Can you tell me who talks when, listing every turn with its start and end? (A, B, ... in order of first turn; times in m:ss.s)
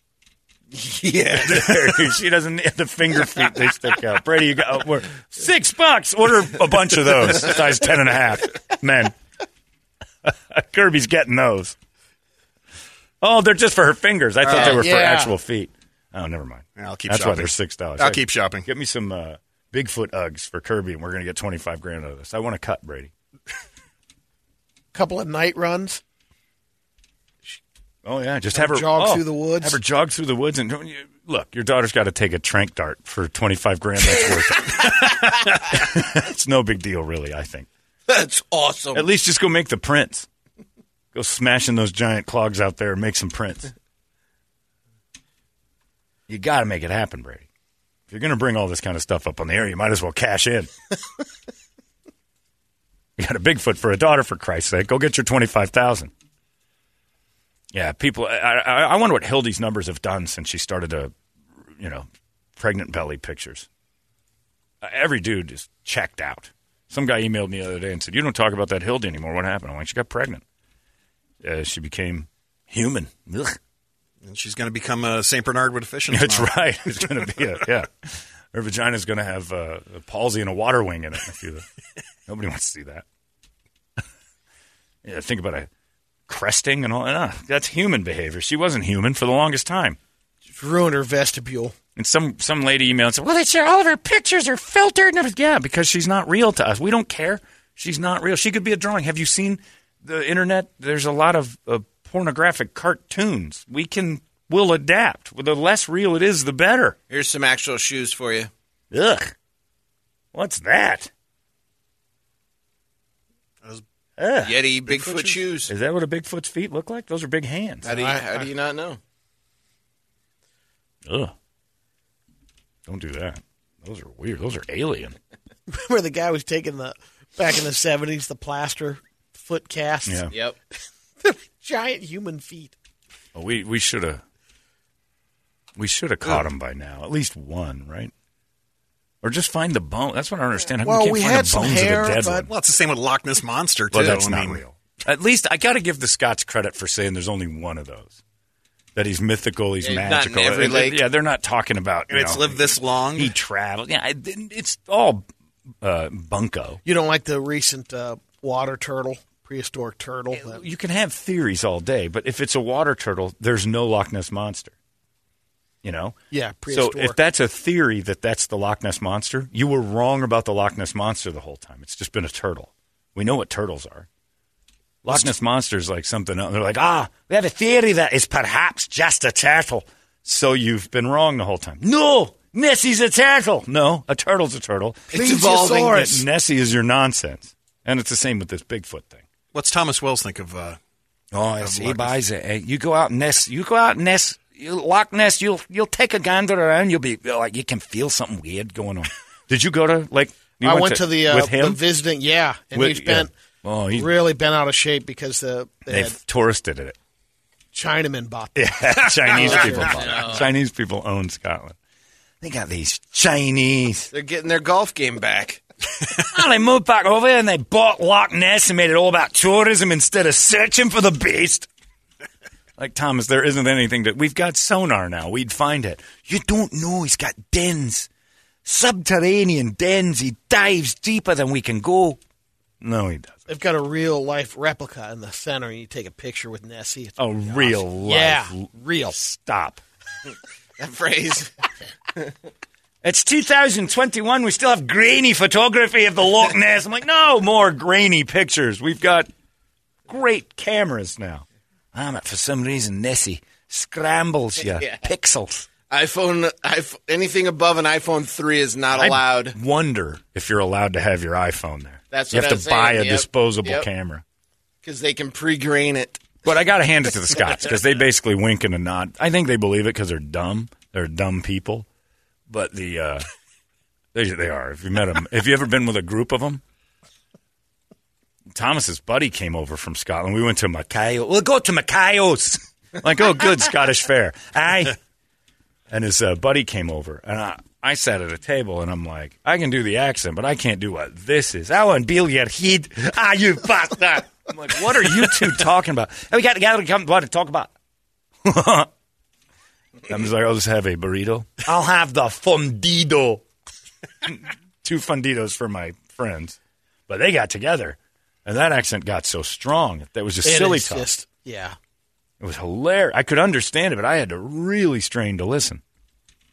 0:00.7-0:02.0 A
0:01.3-0:09.2 B
0:10.2-0:11.8 B
0:13.2-0:23.1 B
0:14.4-0:14.8 C
0:14.5-0:15.3 D
0:16.8-0:18.7 C
0:24.9-0:26.0 D
0:28.0-0:37.7 B
0:28.5-0:29.8 D
0:38.1-0:39.0 A
0:38.9-0:40.3 B
0:41.1-0:43.7 B
0:46.3-0:47.4 B
0:48.1-0:50.7 B
0:53.2-0:56.1 B
0:57.7-1:01.1 B
1:01.8-1:03.7 B
1:04.8-1:10.4 B
1:11.4-1:13.6 B
1:14.2-1:16.7 C
1:16.1-1:21.6 B
1:22.3-1:23.0 B
1:25.0-1:25.7 B
1:26.3-1:30.0 B
1:30.5-1:31.8 D
1:32.0-1:47.0 B
1:47.1-1:48.5 A
1:48.9-1:49.3 B
1:50.3-1:51.1 B
1:54.2-1:55.1 B
1:54.4-1:55.7 A
1:55.6-1:57.8 B
1:57.8-1:59.0 A
1:57.8-1:58.5 D
2:01.1-2:01.3 B
2:02.9-2:05.2 B
2:05.7-2:10.3 D
2:10.1-2:10.3 B
2:11.2-2:12.7 D
2:13.3-2:14.2 B
2:15.8-2:18.1 B
2:19.2-2:22.5 B
2:20.8-2:22.5 D
2:22.5-2:24.6 C
2:23.9-2:28.2 B
2:29.0-2:35.2 B
2:29.8-2:31.0 A
2:32.1-2:33.4 C
2:35.8-2:36.8 B
2:36.8-2:40.6 D
2:40.3-2:44.7 B
2:45.8-2:46.2 B
2:46.3-2:47.2 D
2:46.7-2:54.1 B
2:55.0-3:09.2 B
3:05.1-3:06.2 A
3:05.1-3:06.2 D
3:09.5-3:10.8 C
3:11.3-3:21.8 B
3:11.6-3:12.2 C
3:20.6-3:23.3 D
3:22.7-3:24.1 B
3:23.9-3:26.2 D
3:25.9-3:27.0 B
3:27.7-3:30.4 D
3:28.6-3:31.8 B
3:29.4-3:30.5 A
3:32.4-3:34.1 B
3:34.1-3:35.6 A
3:36.2-3:41.7 B
3:42.8-3:48.1 B
3:48.6-3:52.2 B
3:52.8-3:53.4 B
3:53.5-3:59.2 D
3:57.2-3:59.8 B
4:00.8-4:01.5 A
4:03.0-4:09.3 B
4:10.1-4:15.7 B
4:14.6-4:15.0 A
4:15.9-4:19.6 A
4:18.9-4:24.2 B
4:22.1-4:23.9 A
4:24.8-4:26.4 A
4:26.4-4:31.9 B
4:32.5-4:33.2 B
4:34.1-4:36.6 B
4:38.5-4:45.0 B
4:45.9-4:57.7 B
4:58.4-4:58.9 B
5:00.1-5:03.4 B
5:04.2-5:11.1 B
5:10.4-5:11.8 D
5:12.4-5:15.8 B